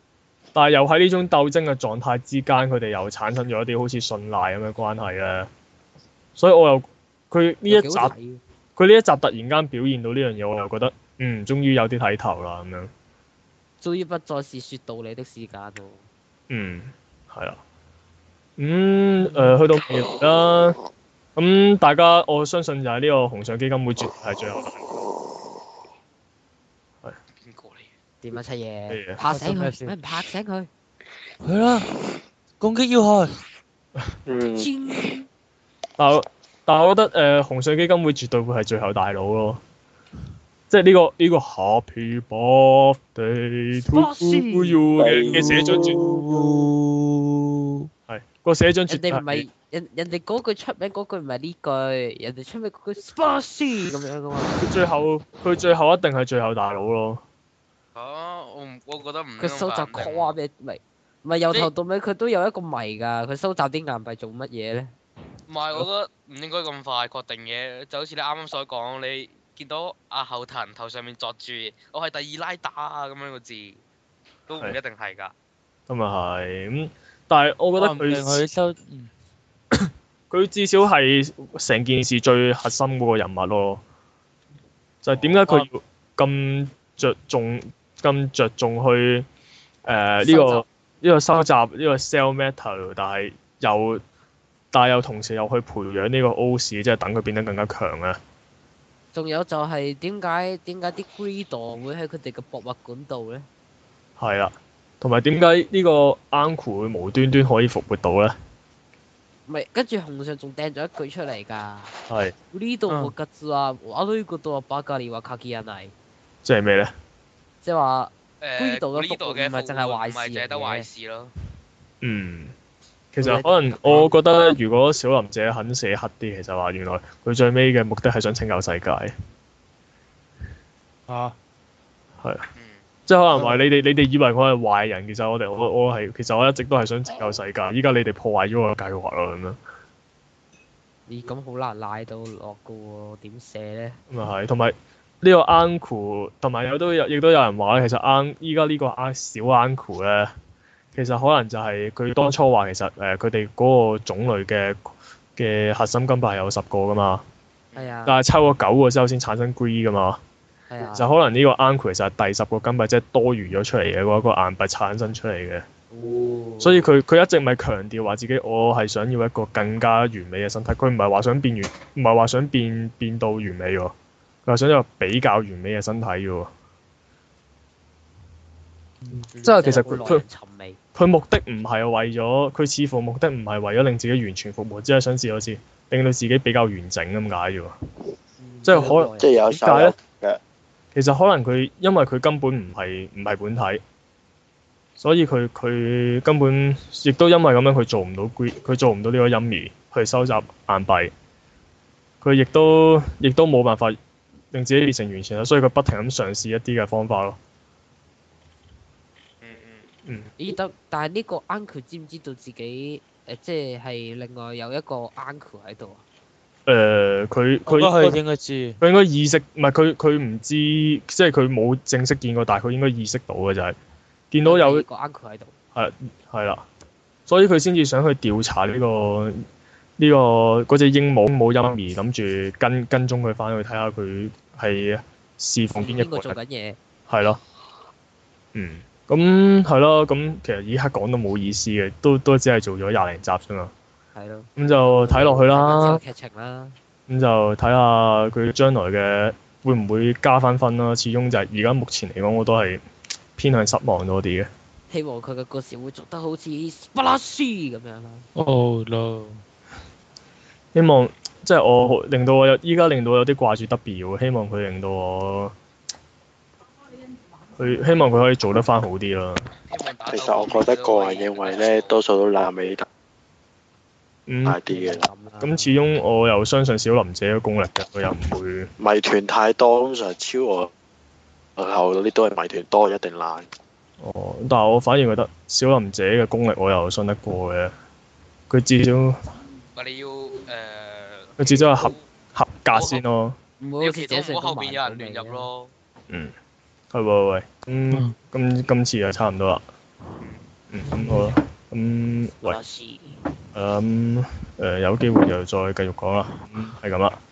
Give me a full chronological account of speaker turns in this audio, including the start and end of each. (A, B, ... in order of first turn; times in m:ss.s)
0:00.5-0:05.5 A
0:06.4-0:08.1 A
0:07.7-0:08.4 B
0:08.8-0:12.9 A
0:13.8-0:16.1 B
0:16.5-0:17.6 A
0:18.6-0:20.8 A
0:21.4-0:24.7 A
0:27.4-0:27.9 C
0:28.2-0:30.7 B
0:28.9-0:29.2 A
0:29.3-0:30.0 D
0:31.4-0:32.1 D
0:32.6-0:33.4 D
0:34.2-0:34.7 E
0:34.6-0:35.3 B
0:36.0-0:39.6 A
0:40.7-0:46.0 A
0:43.7-0:44.8 B
0:45.0-0:46.2 E
0:45.1-0:47.7 D
0:48.1-0:49.4 A
0:48.9-0:54.7 B
0:54.6-0:57.2 A
0:57.9-1:00.4 C
0:59.4-1:04.9 B
1:05.5-1:13.8 C
1:14.5-1:15.3 C
1:15.9-1:18.4 A
1:17.7-1:19.1 D
1:19.7-1:23.8 A
1:25.0-1:29.2 A
1:25.3-1:25.7 D
1:29.8-1:34.0 A
1:30.2-1:30.6 B
1:34.7-1:38.2 A
1:39.1-1:43.4 B
1:44.2-1:48.3 A
1:49.5-1:51.9 B
1:52.1-1:52.3 A
1:52.5-1:55.9 B
1:52.9-1:53.1 D
1:56.4-1:56.9 A
1:57.6-2:00.9 B
1:58.4-2:01.3 C
2:02.0-2:02.5 A
2:03.1-2:09.1 A
2:03.2-2:04.1 B
2:11.1-2:11.4 D
2:12.5-2:12.8 C
2:13.1-2:19.6 A
2:21.1-2:24.0 B
2:24.1-2:30.3 A
2:30.9-2:37.2 A
2:37.7-2:38.2 B
2:38.0-2:40.2 A
2:40.7-2:41.1 B
2:40.9-2:45.6 A
2:45.9-2:46.9 B
2:46.6-2:53.9 A
2:54.4-2:56.5 A
2:59.3-3:00.8 B
2:59.4-3:00.2 A
3:00.9-3:07.7 A
3:08.4-3:09.3 B
3:08.6-3:09.9 A
3:08.7-3:10.4 E
3:10.9-3:13.8 A
3:15.0-3:21.1 A
3:22.2-3:24.0 A
3:24.5-3:27.4 A
3:29.4-3:29.9 C
3:30.0-3:30.3 A
3:30.4-3:36.0 B
3:36.6-3:38.2 A
3:37.6-3:38.8 D
3:38.8-3:43.7 A
3:44.3-3:44.8 A
3:44.4-3:45.5 B
3:45.7-3:46.6 A
3:47.3-3:49.4 A
3:50.0-3:56.4 A
3:55.8-3:56.8 B
3:57.1-3:57.4 A
3:58.5-4:03.7 A
4:04.1-4:06.8 B
4:04.6-4:06.0 A
4:07.1-4:12.8 A
4:13.4-4:14.5 A
4:14.9-4:18.3 B
4:18.3-4:19.4 D
4:20.7-4:25.5 A
4:27.6-4:29.5 A
4:29.7-4:32.0 C
4:30.1-4:32.8 E
4:34.3-4:34.6 A
4:34.4-4:35.1 E
4:34.6-4:35.7 B
4:35.4-4:38.7 A
4:38.8-4:40.7 E
4:41.6-4:43.5 E
4:44.0-4:47.7 A
4:48.5-4:49.2 A
4:49.7-4:52.0 C
4:51.4-4:53.4 A
4:52.7-4:53.0 C
4:53.6-4:55.5 B
4:53.8-4:55.7 C
4:56.9-4:59.6 A
5:00.7-5:02.6 A
5:02.4-5:03.2 B
5:03.5-5:07.2 A